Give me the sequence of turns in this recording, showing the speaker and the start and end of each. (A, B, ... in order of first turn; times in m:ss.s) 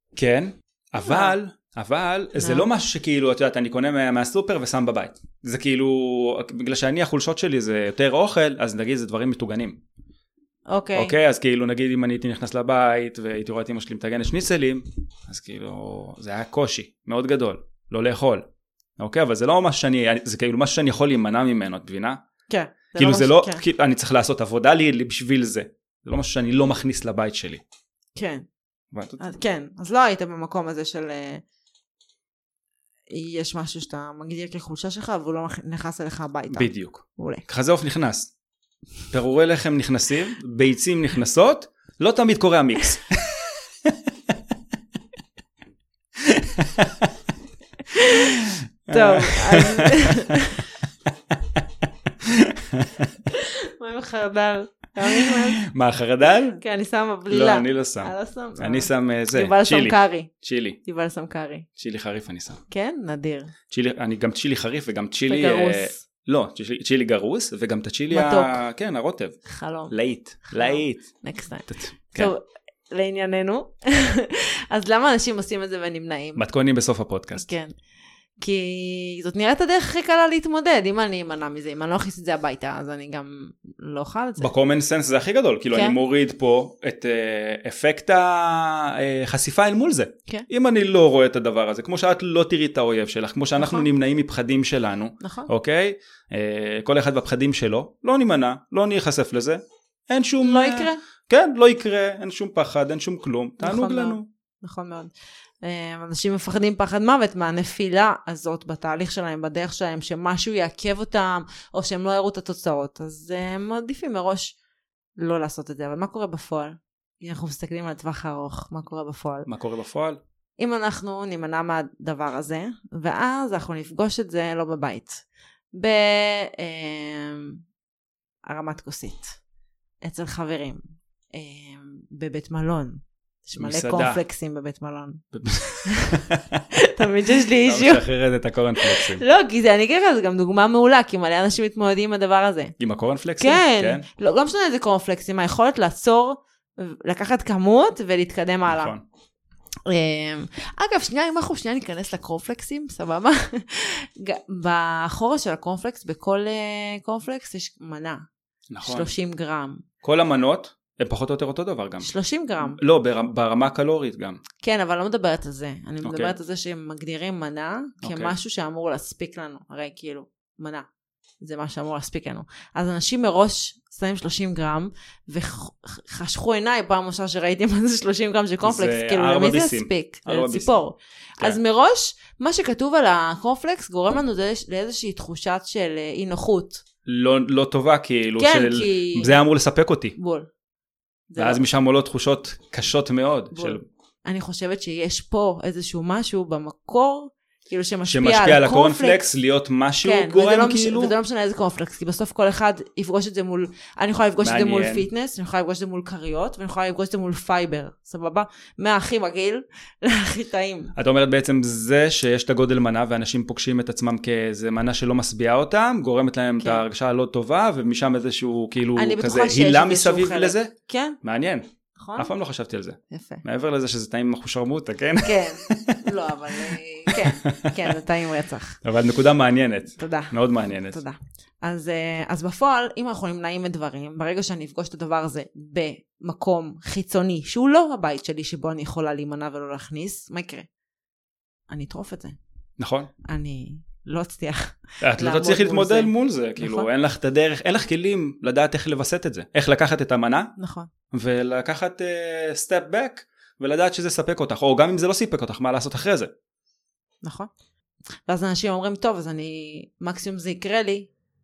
0:00.2-0:09.8 A
0:01.0-0:01.4 B
0:02.4-0:02.6 B
0:10.7-0:11.1 B
0:11.0-0:18.4 A
0:19.0-0:22.2 A
0:22.5-0:23.6 B
0:22.9-0:27.6 A
0:28.2-0:28.4 B
0:28.9-0:29.2 A
0:29.2-0:31.4 B
0:33.1-0:37.4 B
0:36.5-0:38.3 A
0:39.1-0:44.0 A
0:46.2-0:47.1 A
0:47.9-0:48.4 B
0:48.1-0:50.4 A
0:48.9-0:50.7 B
0:51.3-0:53.2 A
0:53.3-0:55.6 B
0:55.1-0:56.6 A
0:56.6-1:00.3 B
0:57.3-1:00.8 A
1:00.8-1:01.7 B
1:01.8-1:02.6 A
1:02.7-1:03.5 B
1:03.7-1:09.4 A
1:05.3-1:06.0 B
1:08.1-1:08.6 B
1:09.4-1:09.9 B
1:09.9-1:11.0 A
1:10.4-1:16.4 B
1:11.7-1:12.3 A
1:16.4-1:17.5 A
1:17.3-1:17.7 B
1:18.4-1:24.5 B
1:24.4-1:44.3 A
1:33.6-1:33.9 B
1:35.2-1:35.5 B
1:40.4-1:41.0 B
1:43.6-1:54.6 B
1:55.2-1:59.5 B
1:59.5-2:00.2 A
2:00.6-2:07.6 B
2:08.4-2:09.4 B
2:10.0-2:10.8 B
2:11.3-2:15.2 B
2:13.6-2:14.2 A
2:15.3-2:16.6 A
2:15.8-2:18.0 B
2:17.3-2:19.2 A
2:18.8-2:22.7 B
2:22.8-2:24.0 A
2:23.4-2:28.9 B
2:28.7-2:29.0 A
2:29.8-2:38.2 B
2:38.7-2:39.1 A
2:38.8-2:39.8 B
2:40.0-2:42.1 A
2:42.0-2:42.8 B
2:42.6-2:44.4 A
2:44.6-2:50.9 B
2:46.0-2:46.3 A
2:48.0-2:48.3 A
2:51.4-3:06.8 B
2:58.6-3:00.8 A
3:07.0-3:10.2 A
3:08.4-3:09.4 B
3:10.2-3:10.5 B
3:11.3-3:11.6 B
3:11.4-3:13.8 A
3:13.5-3:19.2 B
3:18.0-3:21.1 A
3:20.0-3:30.9 B
3:24.4-3:25.1 A
3:30.9-3:41.6 A
3:39.0-3:41.2 B
3:42.0-3:42.3 B
3:42.2-3:46.1 A
3:43.1-3:43.4 B
3:45.2-3:48.8 B
3:46.6-3:48.0 A
3:48.8-3:51.0 A
3:50.0-3:50.3 B
3:50.9-4:00.7 B
4:01.7-4:02.4 B
4:02.8-4:03.1 A
4:03.2-4:06.9 B
4:05.0-4:10.5 A
4:10.6-4:10.9 B
4:11.1-4:16.3 A
4:17.2-4:17.5 B
4:18.3-4:21.1 B